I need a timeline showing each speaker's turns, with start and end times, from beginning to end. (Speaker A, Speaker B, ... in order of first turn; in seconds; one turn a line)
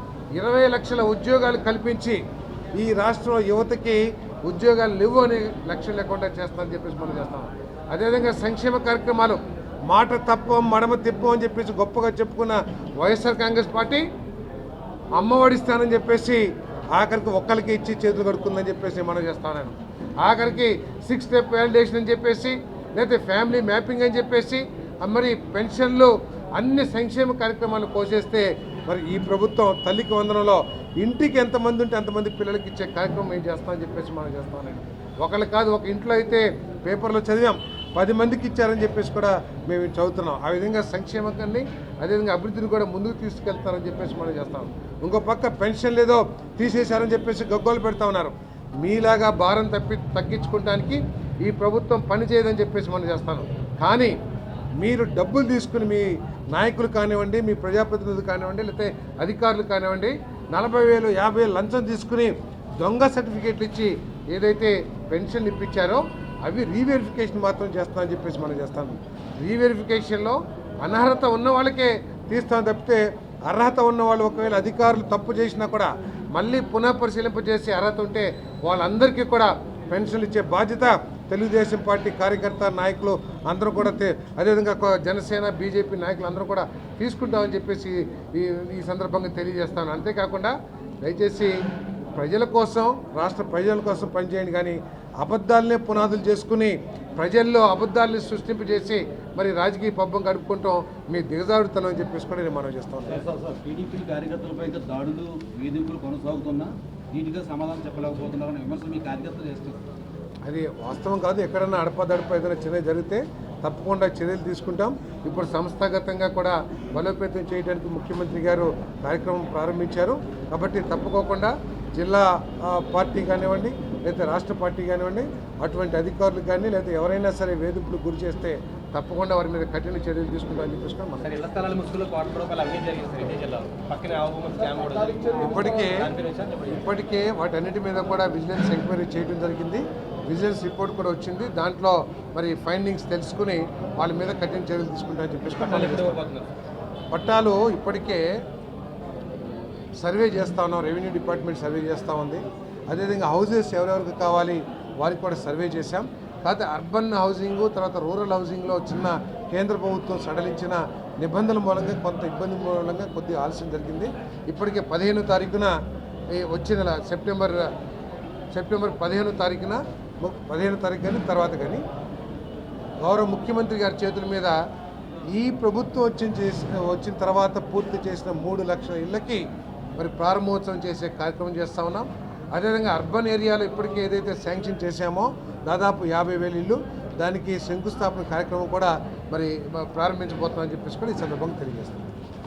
Speaker A: 0.4-2.2
Speaker A: 2.8-14.0
Speaker A: 15.2-54.1
Speaker A: 54.8-91.5
Speaker A: 92.2-103.2
Speaker B: 103.3-109.7
Speaker A: 110.5-131.3
Speaker C: 131.2-135.3
Speaker A: 135.4-136.1
Speaker C: 135.9-136.7
Speaker A: 136.7-146.2
Speaker C: 145.6-146.5
Speaker A: 147.1-148.2
Speaker A: 150.0-165.7
Speaker A: 166.4-167.7
Speaker A: 168.5-171.8
Speaker A: 173.1-174.6
Speaker A: 175.3-179.4
Speaker A: 180.0-192.1